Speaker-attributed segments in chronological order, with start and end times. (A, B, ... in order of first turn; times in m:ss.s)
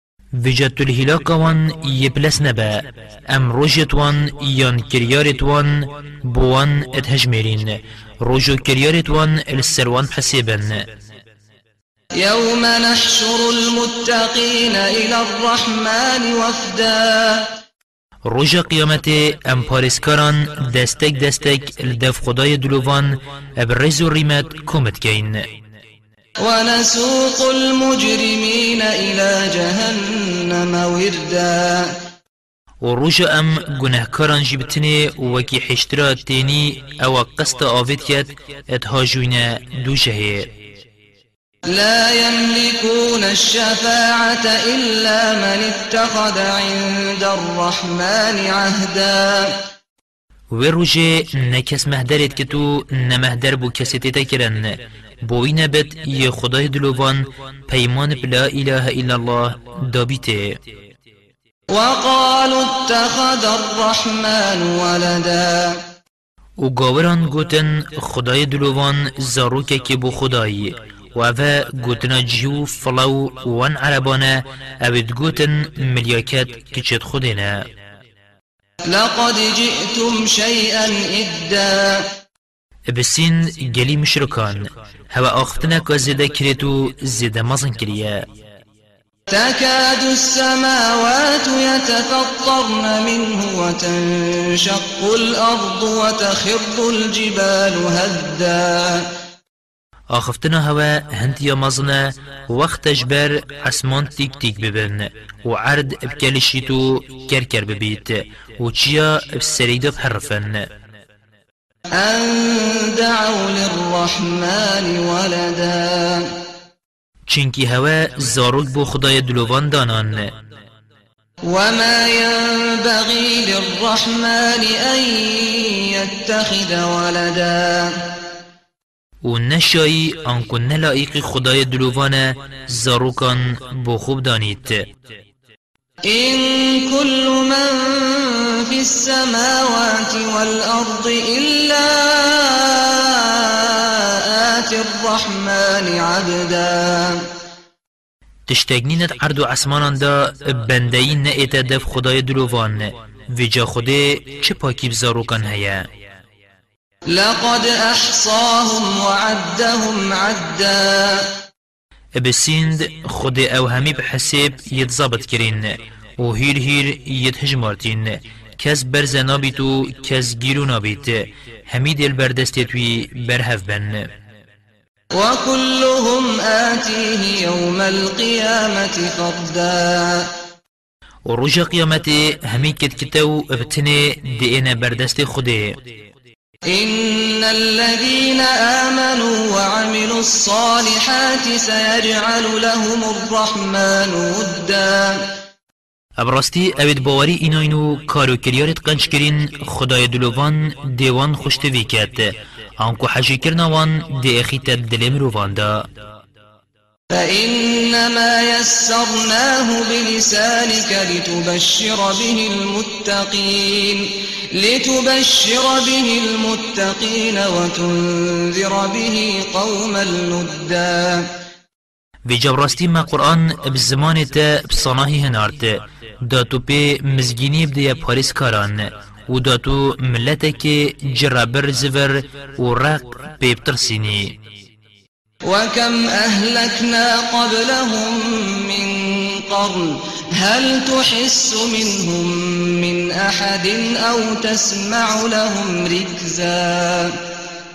0:00.4-0:10.8 A
0:12.2-0:17.6 B
0:18.3-0:25.4 A
0:26.4-0:32.0 B
0:32.8-0:40.5 A
0:41.7-0:49.6 B
0:50.5-1:00.6 A
1:01.7-1:05.8 B
1:06.6-1:17.7 A
1:18.9-1:22.1 B
1:22.9-1:28.3 A
1:29.3-1:39.1 B
1:40.1-1:50.7 A
1:51.9-1:56.3 B
1:57.3-2:00.3 A
2:01.4-2:08.1 B
2:09.2-2:14.8 A
2:16.1-2:27.3 B
2:28.5-2:35.9 A
2:37.1-2:41.3 B
2:42.2-2:54.1 A
2:55.1-3:00.3 B
3:01.3-3:05.8 A
3:06.7-3:15.3 B
3:16.2-3:25.8 A
3:27.1-3:41.3 B
3:42.3-3:54.4 A
3:55.4-4:07.2 B